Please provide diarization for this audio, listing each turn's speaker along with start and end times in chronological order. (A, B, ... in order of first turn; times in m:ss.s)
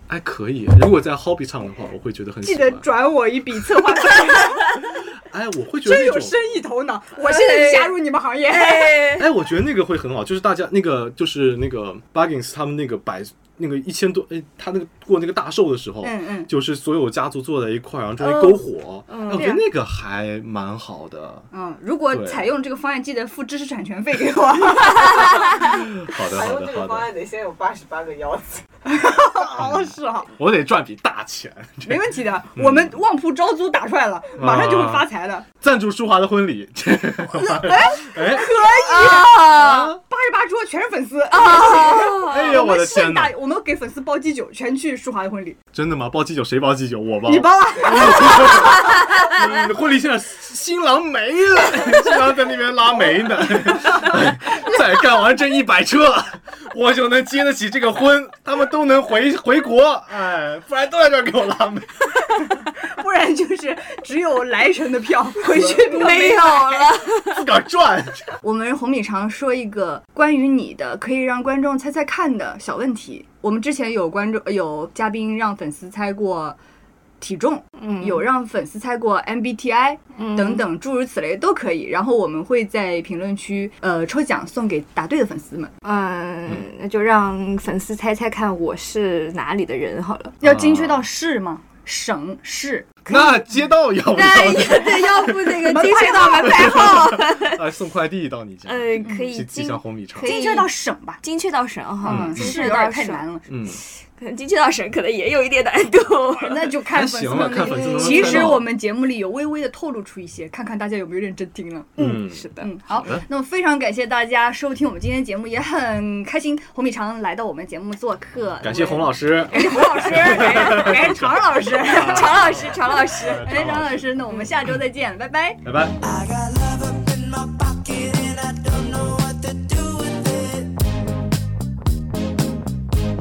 0:00.1-0:02.9 A
0:02.4-0:04.8 B
0:04.8-0:06.4 A
0:05.8-0:09.1 B
0:07.2-0:08.0 C
0:08.5-0:09.3 C
0:09.2-0:21.5 A
0:16.0-0:16.5 B
0:18.2-0:18.6 B
0:19.1-0:19.6 C
0:21.5-0:25.6 B
0:22.1-0:22.5 A
0:25.6-0:27.1 A
0:26.2-0:28.6 D
0:28.9-0:30.3 B
0:29.6-0:33.0 A
0:31.8-0:35.5 B
0:34.4-0:35.1 A
0:35.6-0:38.6 A
0:37.3-0:45.6 B
0:38.7-0:39.9 C
0:39.4-0:40.0 A
0:41.3-0:42.6 C
0:42.2-0:43.4 A
0:45.7-1:01.9 A
0:47.2-0:48.8 B
1:02.5-1:06.9 B
1:05.5-1:07.4 C
1:07.3-1:08.3 A
1:08.4-1:16.6 B
1:17.2-1:25.7 B
1:17.8-1:18.3 C
1:20.2-1:20.6 C
1:25.8-1:30.4 C
1:30.4-1:33.7 B
1:30.4-1:31.1 A
1:33.1-1:35.6 A
1:34.1-1:37.6 C
1:35.5-1:37.1 B
1:36.4-1:40.4 A
1:38.7-1:40.7 C
1:40.2-1:41.2 B
1:41.2-1:43.2 C
1:42.0-1:43.4 B
1:42.0-1:42.6 A
1:43.5-1:43.8 A
1:44.1-1:46.7 C
1:46.4-1:52.0 B
1:46.9-1:48.7 A
1:47.3-1:48.6 C
1:52.0-1:52.7 C
1:52.0-1:53.2 A
1:52.6-2:05.6 B
1:58.6-2:04.8 A
1:59.6-2:00.9 C
2:01.9-2:03.5 C
2:05.6-2:06.0 A
2:06.0-2:10.7 E